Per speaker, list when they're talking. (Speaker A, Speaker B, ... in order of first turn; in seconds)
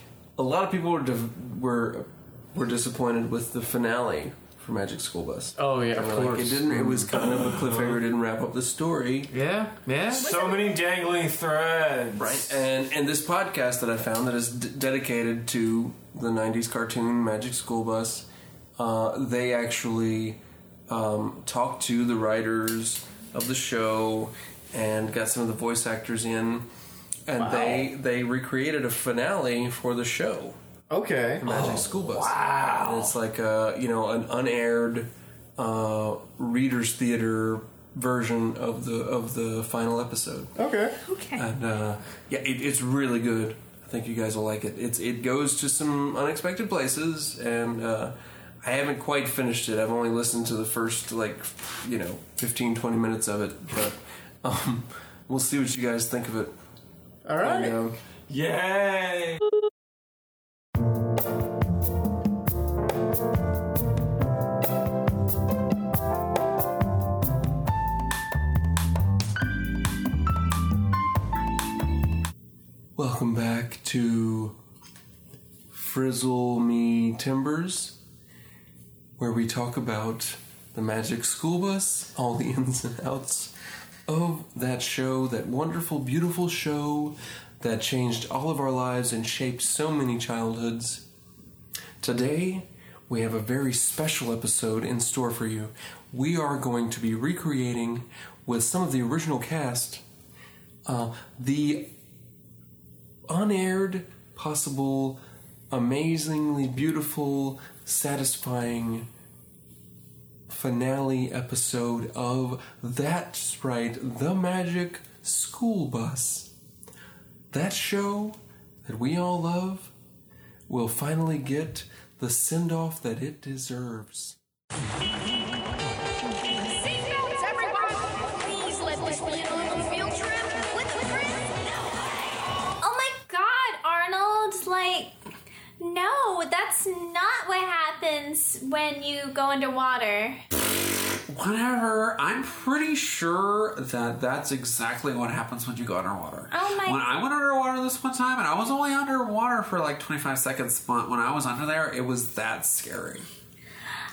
Speaker A: 0.4-9.3, 12.2-18.2, 18.8-26.7, 27.2-30.6, 31.4-40.5, 41.4-56.5, 57.4-58.0, 73.0-74.6, 75.7-78.0, 79.2-83.5, 84.1-91.0, 92.0-100.0, 100.8-101.9, 103.3-105.2, 105.7-109.1, 110.5-116.5, 117.5-119.9, 120.7-124.4
Speaker B: 5.6-7.1, 9.3-10.3, 27.4-27.9, 30.9-31.4, 40.5-41.0, 57.2-57.8
Speaker C: 7.1-7.9, 10.1-12.6, 31.4-33.1, 58.3-59.4
Speaker D: 10.2-10.8, 41.0-41.4, 132.8-135.1, 135.8-140.4, 146.5-147.1
Speaker E: 126.4-132.6
Speaker F: 141.3-153.3